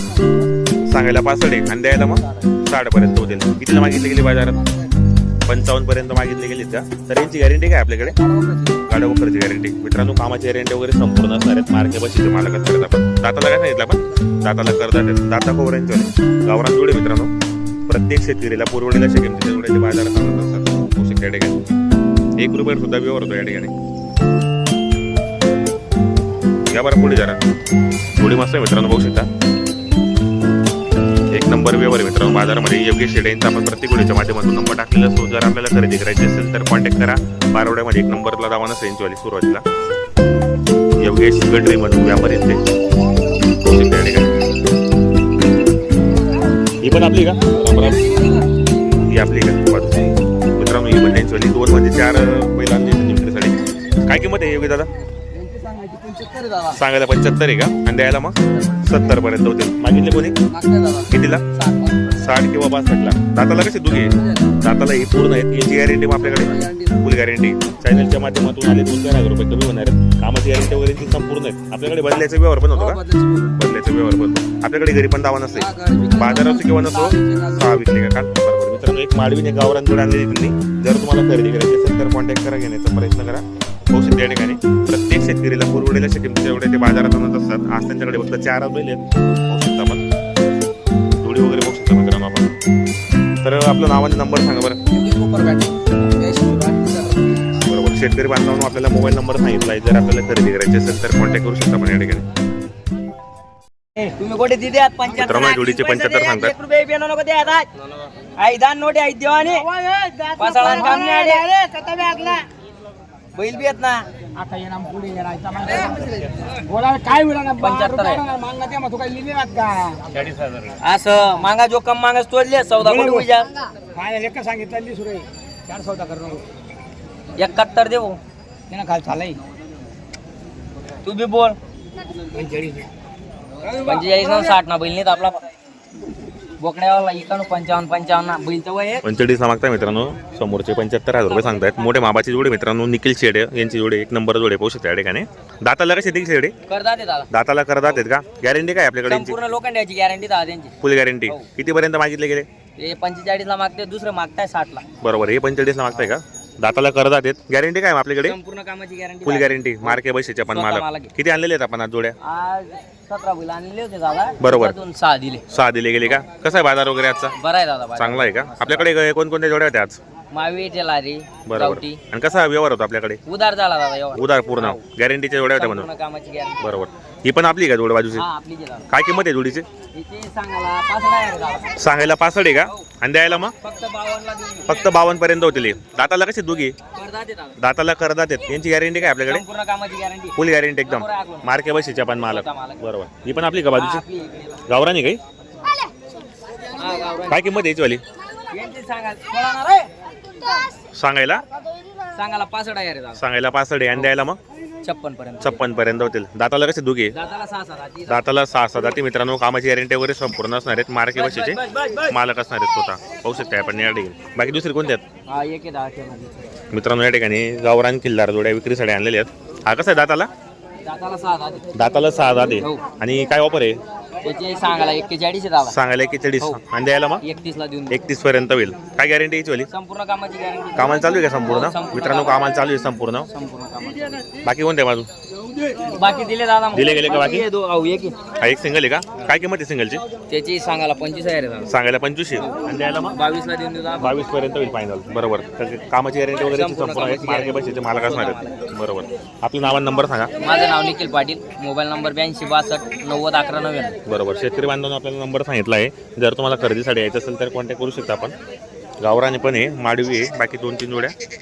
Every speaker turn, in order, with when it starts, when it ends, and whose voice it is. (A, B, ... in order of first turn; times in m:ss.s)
0:00.9-0:04.6 A
0:05.5-0:08.2 A
0:08.2-0:08.8 B
0:08.8-0:17.3 A
0:17.9-0:21.6 A
0:22.4-0:23.7 A
0:26.7-0:27.4 A
0:28.2-0:29.3 A
0:31.3-0:39.6 A
0:41.0-0:42.6 A
0:43.6-0:44.4 A
0:46.8-0:48.2 A
0:49.0-0:54.9 A
0:55.3-0:56.8 B
0:56.7-1:00.4 A
1:00.5-1:02.1 B
1:01.1-1:01.4 A
1:02.1-1:30.0 A
1:06.5-1:07.0 B
1:13.0-1:13.5 B
1:15.6-1:16.3 B
1:16.3-1:17.1 C
1:17.1-1:17.5 B
1:31.2-1:32.5 A
1:33.4-1:34.8 A
1:34.9-1:37.2 B
1:37.6-1:42.3 A
1:44.0-1:47.7 C
1:45.2-1:46.5 A
1:48.4-1:49.7 C
1:49.8-1:52.4 B
1:50.4-1:52.4 C
1:53.4-1:54.1 C
1:54.4-2:00.3 B
1:57.6-1:58.2 C
2:00.7-2:03.5 C
2:02.8-2:03.3 B
2:03.9-2:06.5 B
2:07.4-2:08.2 C
2:08.7-2:09.4 B
2:11.0-2:11.6 C
2:12.3-2:12.9 B
2:13.6-2:14.0 B
2:13.8-2:15.5 C
2:16.6-2:19.0 C
2:19.0-2:26.6 A
2:21.3-2:21.8 C
2:26.7-2:27.3 C
2:27.3-2:29.4 A
2:29.1-2:31.5 C
2:30.8-2:32.5 A
2:32.8-2:34.8 C
2:35.0-2:38.4 A
2:38.2-2:41.1 C
2:39.2-2:42.2 A
2:42.2-2:45.4 C
2:44.4-2:44.8 A
2:45.5-2:47.3 A
2:47.4-2:48.9 C
2:48.0-2:50.0 A
2:50.3-2:52.0 C
2:51.5-2:53.2 A
2:53.3-2:54.8 C
2:54.1-2:55.9 A
2:55.4-2:56.8 C
2:56.6-2:58.2 A
2:58.1-2:58.9 C
2:58.9-2:59.7 A
2:59.9-3:01.8 C
3:01.8-3:03.5 A
3:03.6-3:05.0 C
3:04.7-3:06.8 A
3:07.0-3:07.6 C
3:07.6-3:09.4 A
3:09.0-3:12.9 C
3:10.4-3:14.0 A
3:13.7-3:14.7 C
3:14.7-3:15.2 A
3:16.7-3:17.5 C
3:17.3-3:18.0 A
3:18.5-3:19.9 C
3:20.9-3:21.4 A
3:22.1-3:23.2 C
3:23.2-3:24.4 A
3:24.8-3:25.6 C
3:25.4-3:27.1 A
3:27.1-3:28.3 C
3:28.1-3:35.0 A
3:31.1-3:32.2 C
3:35.3-3:36.5 C
3:36.7-3:40.3 A
3:40.9-3:41.8 C
3:41.7-3:43.8 A
3:42.6-3:42.9 C
3:44.2-3:45.8 C
3:45.6-3:47.2 A
3:47.2-3:48.0 C
3:47.9-3:49.7 A
3:49.7-3:52.5 C
3:50.8-3:53.3 A
3:53.3-3:54.3 C
3:54.4-3:55.1 A
3:55.7-3:58.2 C
3:56.7-3:57.5 A
3:58.4-4:00.0 A
4:00.3-4:01.7 C
4:01.7-4:03.2 A
4:02.4-4:04.3 C
4:04.0-4:10.3 A
4:06.4-4:08.7 C
4:10.4-4:14.0 C
4:14.1-4:18.3 A
4:19.0-4:21.1 A